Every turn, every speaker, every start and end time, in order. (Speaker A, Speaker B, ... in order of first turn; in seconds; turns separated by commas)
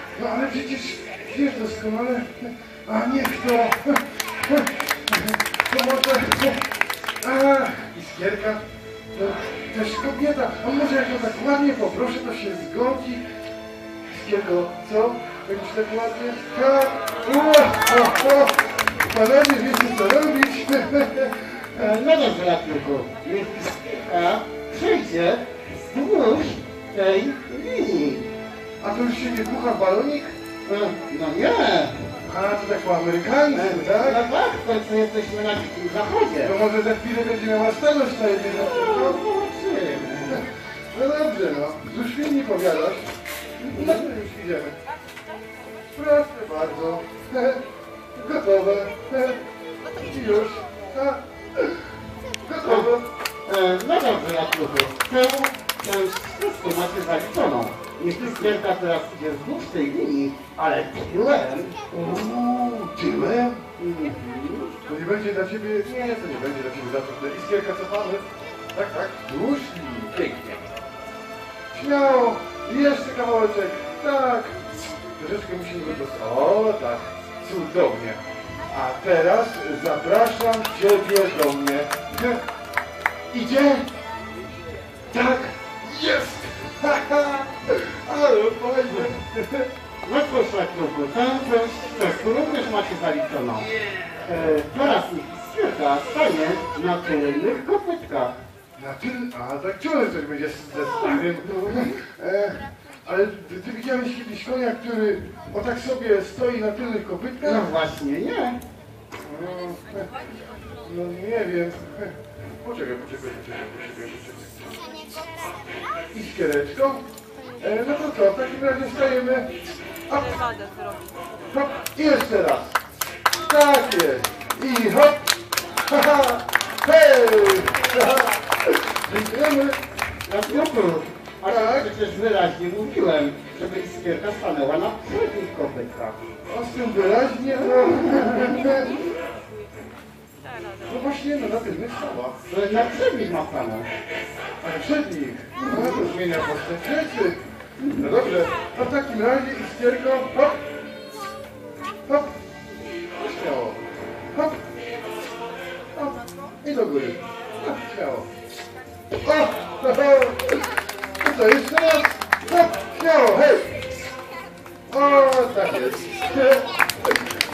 Speaker A: 0.1-6.7, Speaker A: 7.2-13.2, Speaker A: 14.0-21.9, Speaker B: 21.8-28.3, Speaker A: 28.8-30.4, Speaker B: 30.6-32.1, Speaker A: 32.2-34.2, Speaker B: 33.5-36.5, Speaker A: 36.4-39.2, Speaker B: 38.5-40.4, Speaker A: 40.3-43.1, Speaker B: 43.6-44.0, Speaker A: 43.7-44.7, Speaker A: 45.9-47.6, Speaker A: 48.1-49.4, Speaker A: 50.0-51.8, Speaker A: 52.4-53.0, Speaker B: 52.6-52.9, Speaker B: 53.5-61.8, Speaker A: 58.1-58.5, Speaker A: 61.9-63.6, Speaker B: 63.8-64.7, Speaker A: 64.8-70.6, Speaker A: 71.7-74.6, Speaker A: 75.2-82.3, Speaker A: 83.3-83.9, Speaker A: 85.1-89.7, Speaker B: 90.0-93.7, Speaker B: 94.2-98.3, Speaker A: 98.8-107.7, Speaker B: 101.0-102.0, Speaker B: 107.4-108.6, Speaker A: 109.2-110.1, Speaker A: 110.8-114.7, Speaker A: 116.1-117.0, Speaker A: 117.6-119.5, Speaker A: 120.1-120.4, Speaker A: 121.5-122.8, Speaker A: 123.4-125.2, Speaker A: 125.8-129.8, Speaker B: 130.3-136.2, Speaker A: 131.4-131.9, Speaker A: 136.5-139.0, Speaker B: 138.0-138.7, Speaker A: 140.8-142.3, Speaker B: 142.4-143.9, Speaker A: 144.6-147.4, Speaker B: 145.6-146.1, Speaker B: 147.8-148.1, Speaker A: 148.0-150.6, Speaker A: 152.1-152.3, Speaker A: 153.2-153.8, Speaker A: 154.3-154.6, Speaker A: 155.9-158.3, Speaker A: 159.2-160.6, Speaker A: 161.2-163.7, Speaker A: 164.9-167.2